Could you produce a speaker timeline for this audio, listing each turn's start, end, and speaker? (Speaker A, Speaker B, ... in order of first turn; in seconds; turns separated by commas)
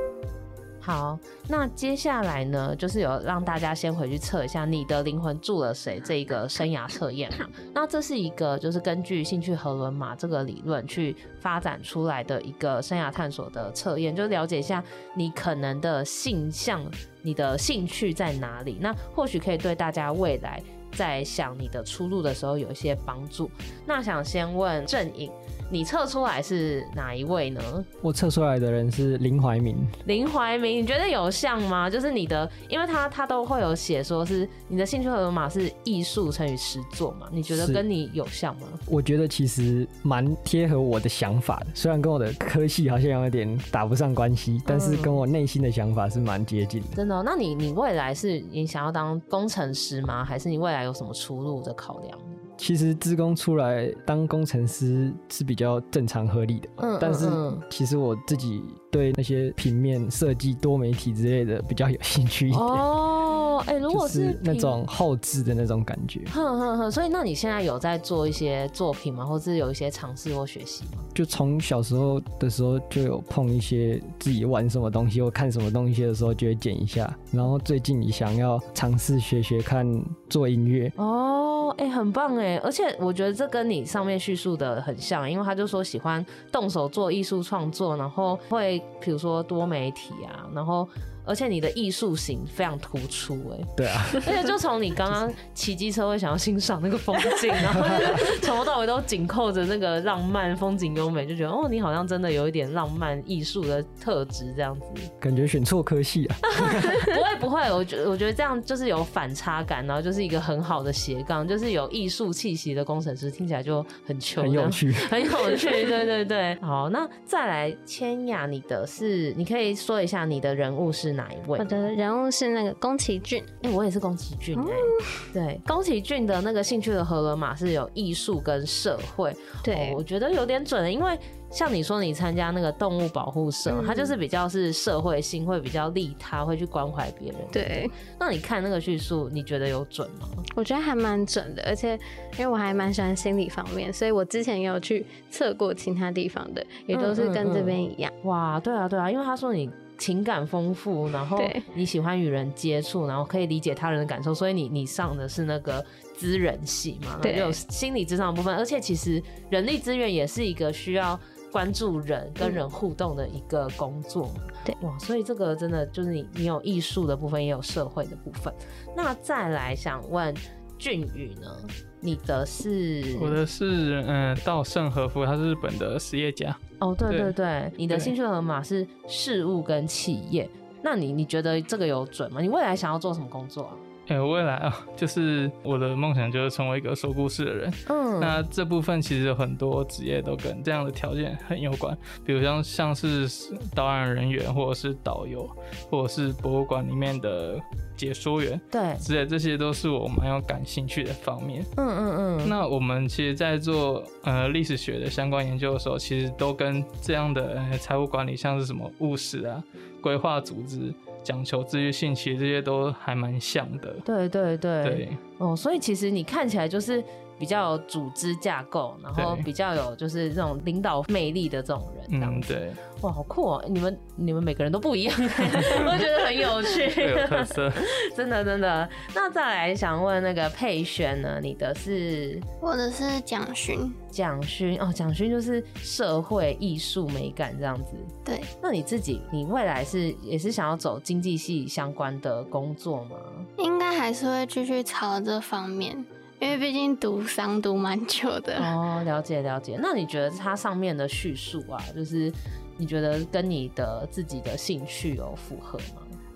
Speaker A: 0.8-27.9, Speaker B: 28.0-29.9, Speaker A: 30.0-38.8, Speaker B: 37.5-37.8, Speaker B: 38.9-46.9, Speaker A: 44.6-45.2, Speaker A: 46.9-52.4, Speaker B: 52.6-62.9, Speaker A: 56.8-57.6, Speaker A: 62.5-64.8, Speaker B: 63.9-66.3, Speaker A: 66.3-71.1, Speaker B: 71.1-80.9, Speaker A: 81.0-105.1, Speaker B: 93.8-94.4, Speaker B: 97.6-98.1, Speaker B: 105.2-107.0, Speaker A: 106.8-121.7, Speaker B: 114.4-115.1, Speaker C: 121.6-123.5, Speaker A: 123.6-140.4, Speaker C: 124.5-125.1, Speaker C: 129.6-130.0, Speaker C: 133.7-134.1, Speaker C: 137.5-137.9, Speaker C: 140.5-148.1, Speaker A: 146.9-173.4, Speaker C: 151.4-151.6, Speaker C: 157.2-157.6, Speaker D: 173.2-177.3, Speaker A: 176.8-183.8, Speaker D: 184.1-201.7, Speaker A: 187.9-188.4, Speaker A: 198.7-199.0, Speaker A: 201.8-202.5, Speaker D: 202.4-214.0, Speaker A: 214.0-232.4, Speaker D: 214.8-215.2, Speaker D: 219.2-219.4, Speaker D: 222.1-222.8, Speaker D: 227.0-227.8, Speaker E: 232.6-233.9, Speaker A: 234.1-243.5, Speaker E: 243.6-248.7, Speaker A: 248.6-256.1